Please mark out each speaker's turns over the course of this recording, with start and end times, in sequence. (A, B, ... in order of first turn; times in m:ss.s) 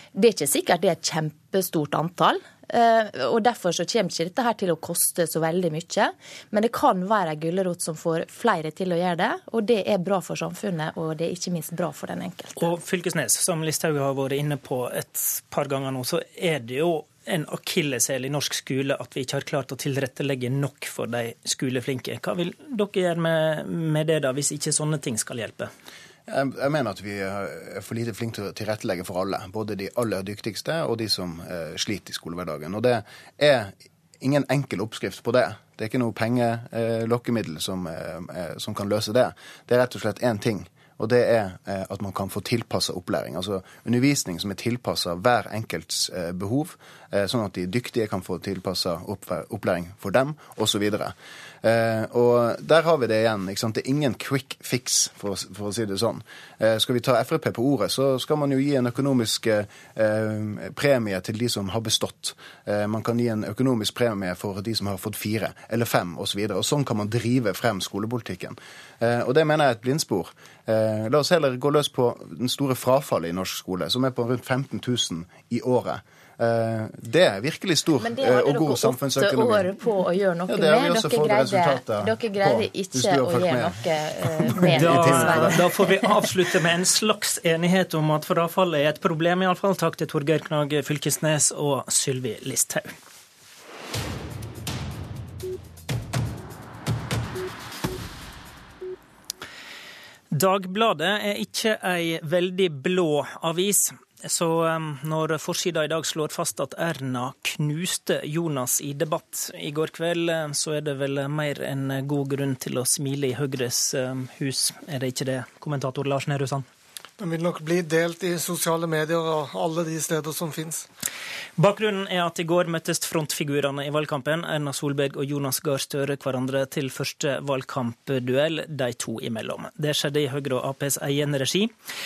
0:00.1-0:12.7 A
0:12.6-0:25.7 B
0:26.3-1:19.8 C
1:18.0-1:25.7 A
1:20.5-1:25.7 C
1:24.7-1:32.9 B
1:40.3-1:56.7 B
1:57.2-2:00.8 D
2:01.6-2:11.7 B